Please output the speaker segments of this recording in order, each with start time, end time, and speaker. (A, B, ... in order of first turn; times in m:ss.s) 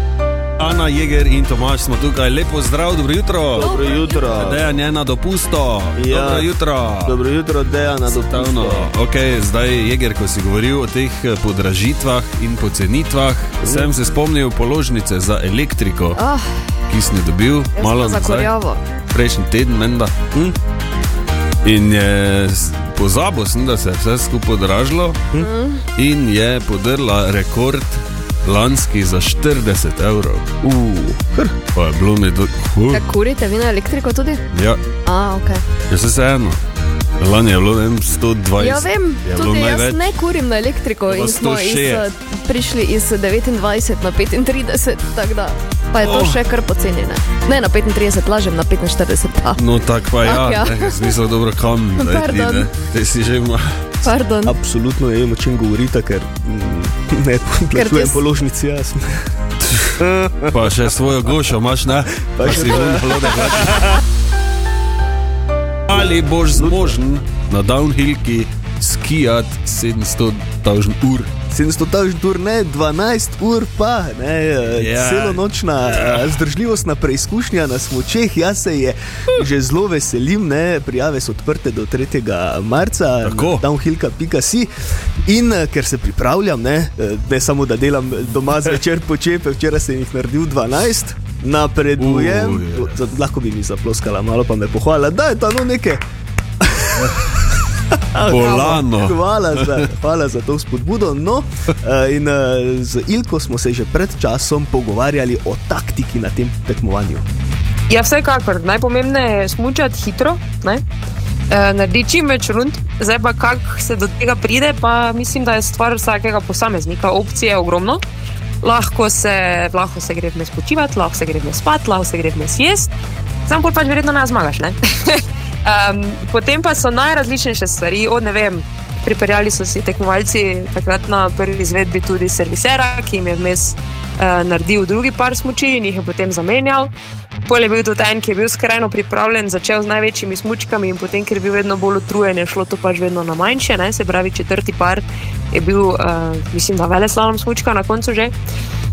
0:00.6-0:03.7 A
0:03.5-0:04.7 B
0:03.6-0:04.5 C
0:04.3-0:07.2 A
0:06.0-0:06.5 B
0:07.0-0:08.9 B
0:08.1-0:16.2 A
0:13.6-0:13.9 B
0:16.2-0:16.7 C
0:16.9-0:18.5 A
0:17.8-0:18.8 C
0:19.1-0:20.2 A
0:21.6-0:25.3 A
0:25.4-0:25.8 C
0:26.0-0:30.5 A
0:30.6-0:31.6 B
0:31.7-0:33.0 A
0:32.9-0:34.4 C
0:34.5-0:34.8 A
0:35.0-0:35.6 C
0:35.9-0:36.6 A
0:37.2-0:40.2 A
0:38.6-0:49.6 C
0:41.1-0:42.0 A
0:46.0-0:46.4 A
0:49.6-0:53.8 A
0:50.2-0:51.0 C
0:52.0-0:52.7 C
0:54.0-0:54.5 C
0:54.4-0:59.3 B
0:57.7-0:58.2 C
0:59.7-1:04.0 A
1:00.0-1:00.5 B
1:02.3-1:04.0 B
1:05.9-1:11.3 A
1:06.6-1:07.0 B
1:11.5-1:36.0 B
1:14.7-1:16.3 A
1:23.2-1:23.6 A
1:32.0-1:33.0 A
1:36.6-1:37.1 B
1:37.0-1:37.3 A
1:37.9-1:47.2 B
1:38.2-1:39.9 A
1:47.9-1:50.8 D
1:51.5-1:58.0 D
1:58.6-2:02.9 D
2:03.5-2:16.9 D
2:17.4-2:28.3 D